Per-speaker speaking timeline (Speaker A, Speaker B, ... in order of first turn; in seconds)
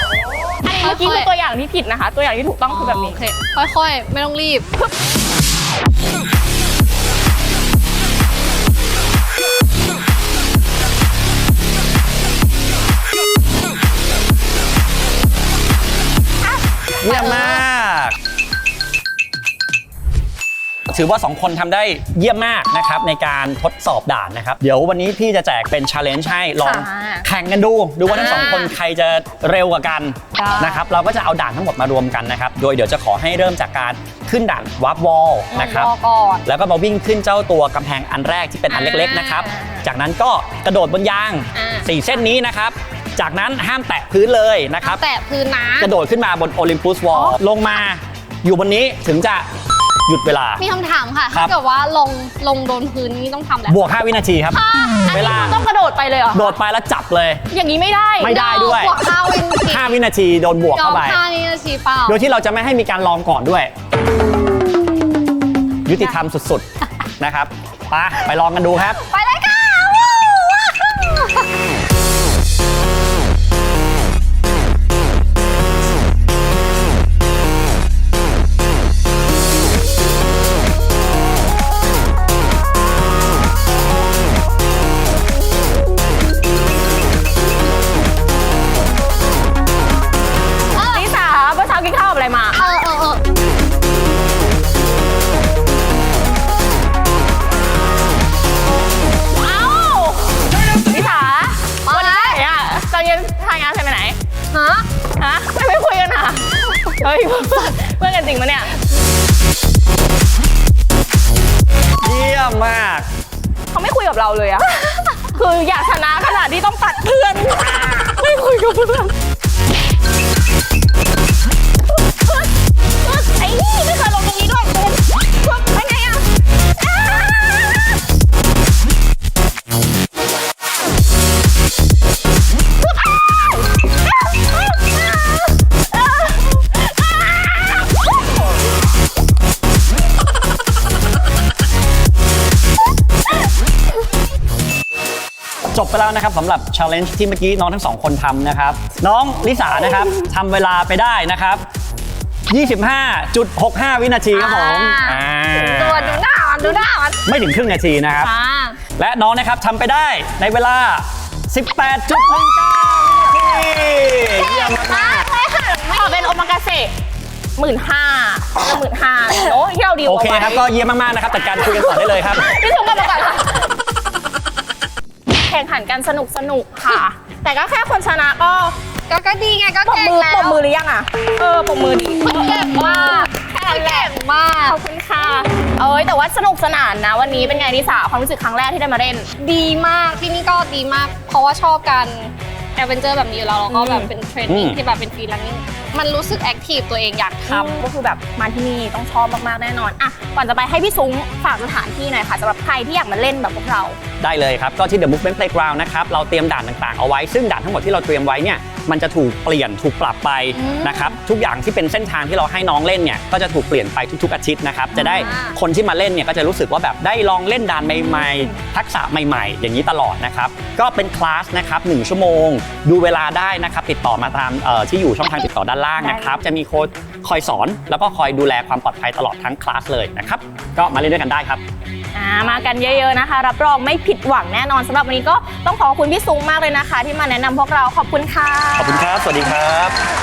Speaker A: 0.6-3.2, 26.6-27.2, 39.5-39.9, 55.1-56.6, 57.5-58.4, 90.8-92.6, 99.4-104.2, 105.1-108.7, 113.7-119.1, 123.0-126.2, 126.8-127.9, 158.2-158.7, 164.4-166.9, 167.6-170.6, 171.6-173.7, 175.5-178.8, 179.9-189.3, 193.7-194.1, 197.5-204.0, 210.5-211.2, 215.0-215.3, 218.0-218.5, 226.0-226.4, 232.1-239.1
Speaker B: 0.8-1.3, 2.7-4.7, 17.0-17.6, 28.1-28.7, 30.3-30.8, 35.5-36.5, 38.7-39.5, 41.5-42.0, 44.8-45.9, 50.6-53.9, 54.5-55.4, 58.2-60.0, 60.7-62.2, 65.9-66.2, 69.1-71.4, 90.7-91.1, 92.5-93.2, 101.8-102.4, 104.5-104.8, 154.3-157.2, 158.3-158.7, 179.1-180.6, 182.2-184.8, 189.3-197.8, 215.0-215.6, 232.4-233.1
Speaker C: 17.0-18.1, 20.9-35.9, 36.5-45.0, 45.8-49.5, 50.0-50.6, 53.7-54.6, 55.1-55.6, 56.3-57.4, 58.2-59.0, 59.7-61.2, 62.1-63.7, 65.8-66.6, 67.2-69.0, 112.0-113.1, 145.7-151.6, 152.5-156.2, 157.2-158.3, 159.0-165.3, 170.0-172.5, 194.5-194.8, 204.2-231.6, 238.8-239.9